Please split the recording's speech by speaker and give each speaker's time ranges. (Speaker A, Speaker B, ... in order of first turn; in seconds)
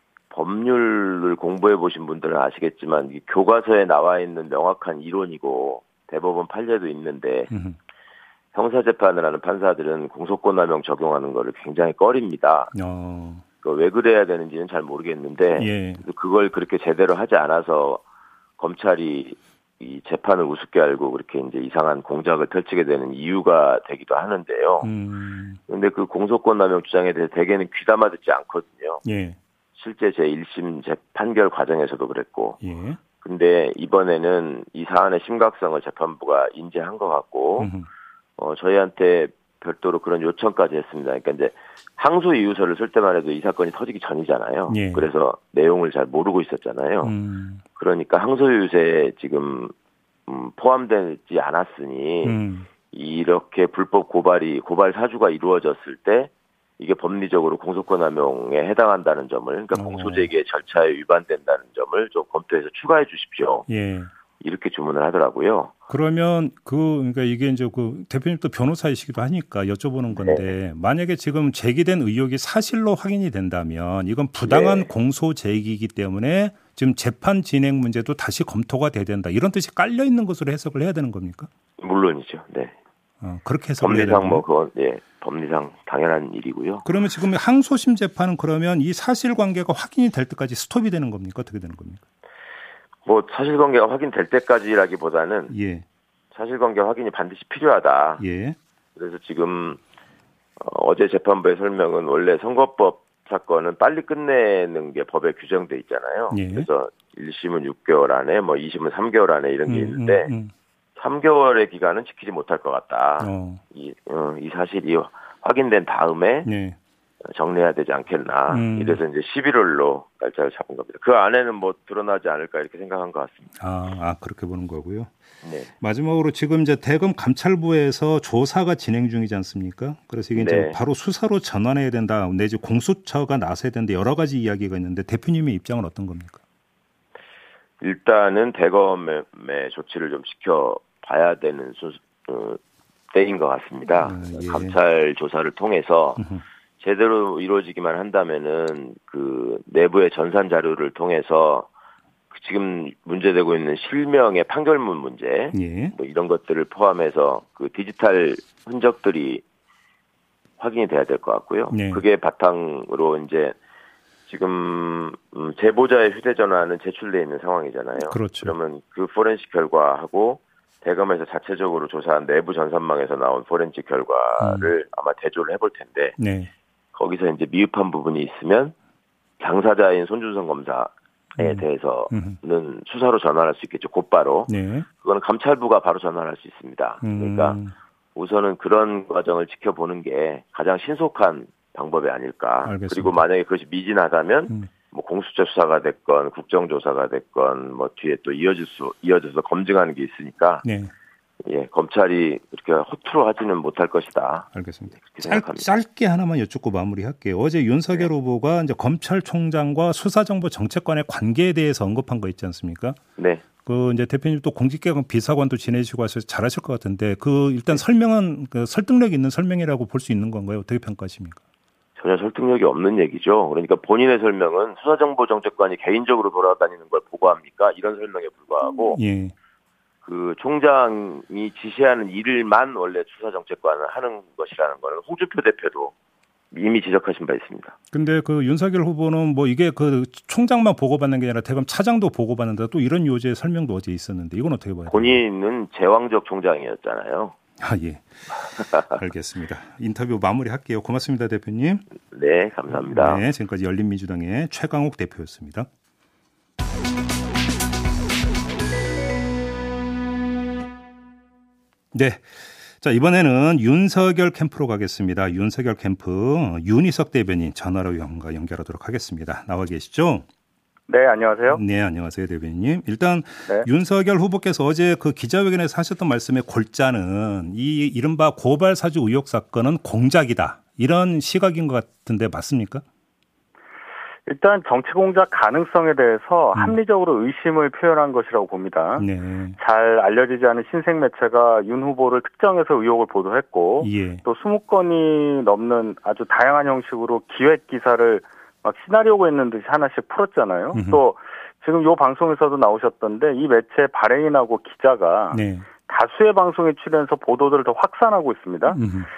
Speaker A: 0.3-7.5, 8.5-12.7, 13.6-18.0, 18.6-24.9, 25.7-29.0, 29.8-32.6, 33.2-37.7, 38.4-47.1, 47.8-49.7, 50.3-52.4, 52.9-63.7, 64.4-65.7, 70.1-70.5, 74.4-74.9, 81.8-82.7, 83.8-86.8, 93.0-95.5, 96.3-98.2, 99.0-99.8, 100.6-110.3, 111.0-116.5, 117.2-123.5, 125.4-125.7, 130.3-130.8, 137.8-142.6, 143.1-146.3, 146.8-151.7, 152.3-159.4, 160.6-163.5, 164.3-176.2, 176.9-178.7, 179.4-187.6, 188.1-200.6, 201.4-205.7, 213.2-213.4, 222.0-229.0, 230.0-235.9, 236.5-237.8, 244.9-247.3, 248.6-248.8, 252.1-253.2
Speaker B: 7.5-7.8, 12.7-13.4, 15.6-16.0, 24.8-25.6, 29.0-29.4, 32.6-33.0, 37.6-37.9, 44.7-45.0, 47.0-47.6, 52.2-52.7, 59.7-60.3, 63.7-64.1, 65.9-81.5, 83.2-84.4, 86.8-92.0, 95.5-95.8, 98.2-98.6, 106.3-106.7, 109.7-110.5, 113.2-113.6, 116.5-116.8, 118.5-119.0, 123.6-125.1, 125.8-136.4, 144.0-144.8, 155.5-155.9, 161.7-162.0, 168.1-168.5, 174.4-174.7, 176.2-176.5, 181.4-182.4, 184.5-184.9, 187.0-187.7, 192.6-193.2, 200.6-200.9, 204.5-213.0, 213.6-221.4, 228.9-229.3, 237.9-245.2, 247.6-248.1, 248.6-251.8, 252.7-255.7, 261.9-262.3, 262.8-270.2, 271.5-282.8, 289.0-289.6, 293.8-294.2, 300.7-301.0, 305.3-305.6, 308.7-309.1
Speaker C: 270.9-271.6, 284.2-289.1, 289.6-308.8